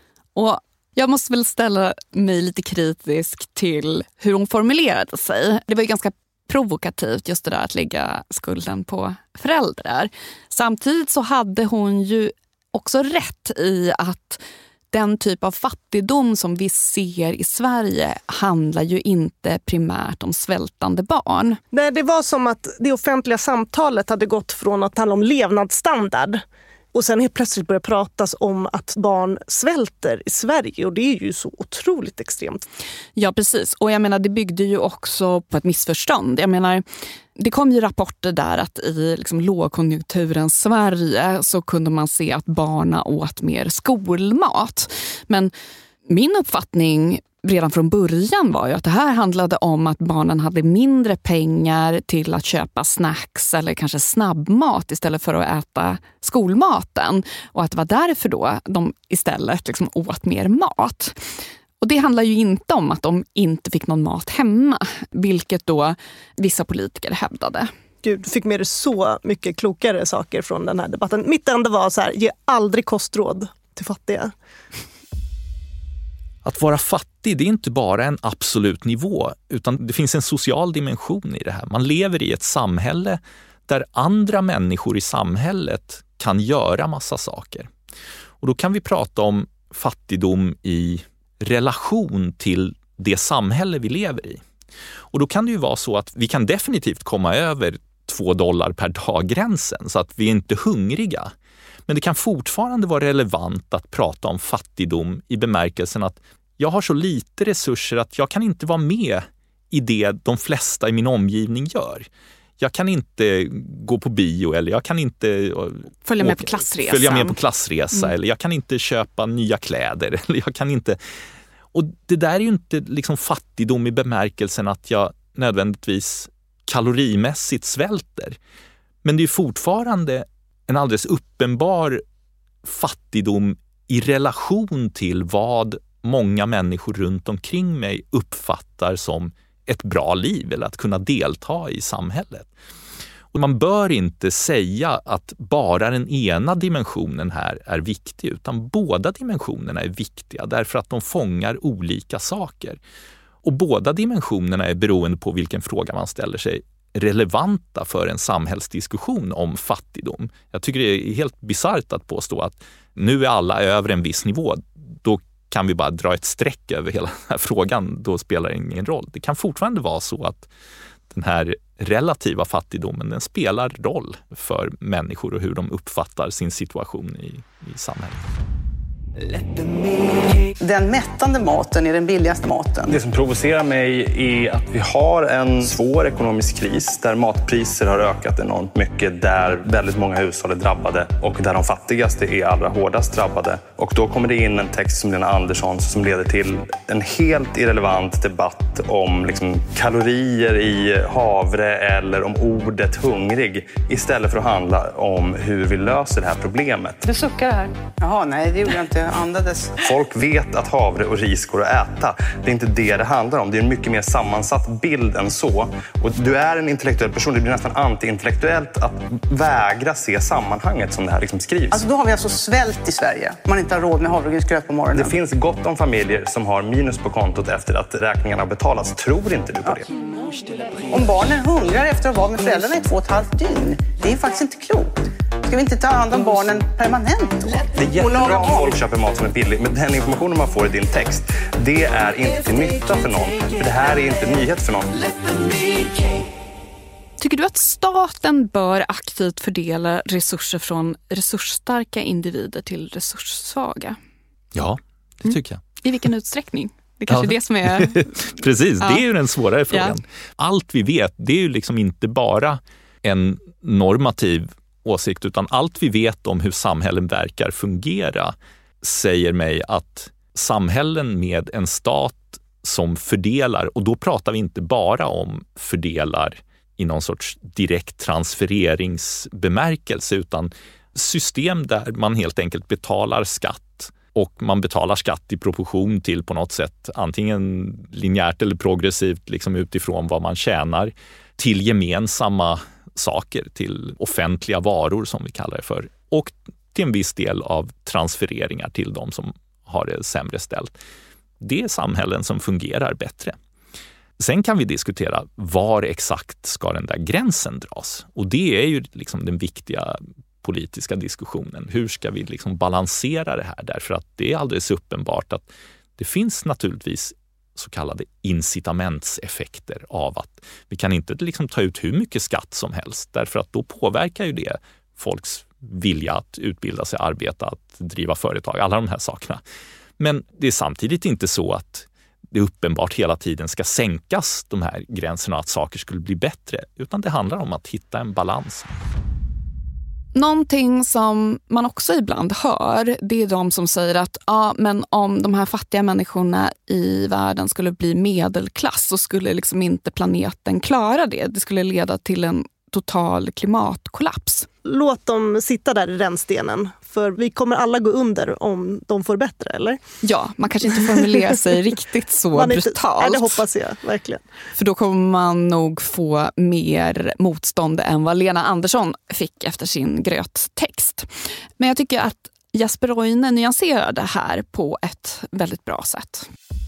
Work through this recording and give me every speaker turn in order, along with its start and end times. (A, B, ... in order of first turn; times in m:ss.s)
0:00.4-0:21.6 A
0:21.7-0:26.4 B
0:26.9-0:32.6 B
0:33.2-0:45.5 A
0:46.1-1:01.2 A
1:01.8-1:07.7 A
1:08.0-1:14.3 B
1:16.4-1:27.7 C
1:28.4-1:34.4 C
1:35.1-1:41.3 C
1:41.9-1:52.1 C
1:52.6-2:01.0 C
1:56.0-1:57.4 A
2:01.7-2:08.4 C
2:09.0-2:12.0 C
2:12.6-2:22.5 C
2:23.3-2:32.8 C
2:33.4-2:50.5 C
2:51.1-2:58.2 C
3:00.6-3:03.0 D
3:02.9-3:27.1 E
3:27.1-3:30.0 D
3:29.8-3:41.9 E
3:41.7-3:45.2 D
3:44.9-3:49.9 E
3:50.9-3:58.8 D
3:57.7-4:05.8 E
4:07.2-4:14.0 A
4:14.6-4:15.6 C
4:15.2-4:18.3 A
4:17.1-5:00.7 C
4:18.8-4:19.0 A
4:19.7-4:20.0 A
5:01.4-5:03.4 C
5:04.2-5:29.4 C
5:30.0-5:38.7 C
5:40.2-5:54.5 A
5:54.6-5:59.8 B
6:00.0-6:03.4 A
6:02.3-6:04.2 B
6:04.6-6:16.3 A